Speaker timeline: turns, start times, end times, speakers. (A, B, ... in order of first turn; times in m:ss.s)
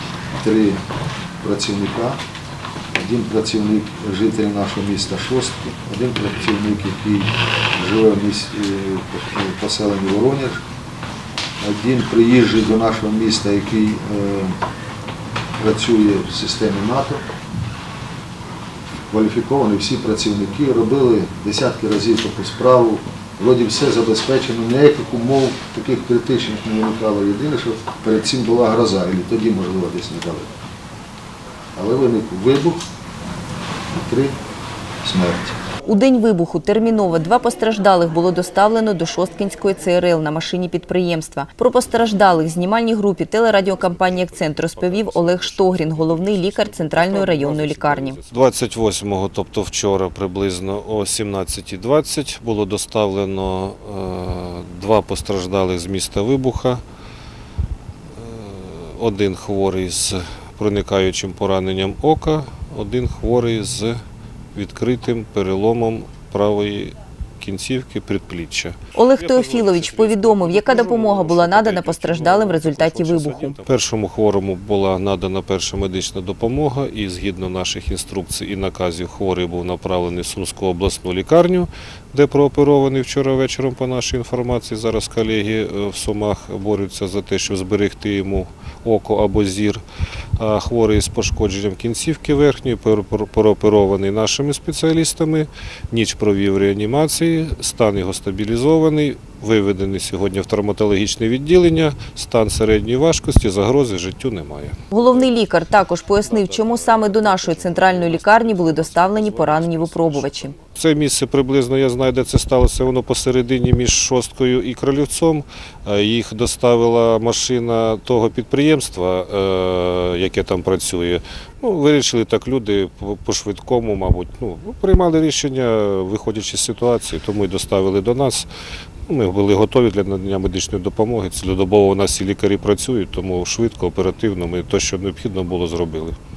0:00.4-0:00.8 A
0:01.4-0:02.2 A
0:02.9-0:10.6 A
0:11.6-0:14.6 A
0:15.6-0:17.2 A
0:19.1-0:30.5 A
0:31.7-0:32.8 A
0:33.9-0:34.4 A
0:35.0-0:35.6 A
0:35.8-0:48.2 B
0:43.5-0:56.8 C
0:58.1-1:04.0 C
1:04.5-1:29.8 C
1:08.9-1:13.6 B
1:30.4-2:08.5 C
1:44.9-1:50.5 B
2:09.1-2:16.2 C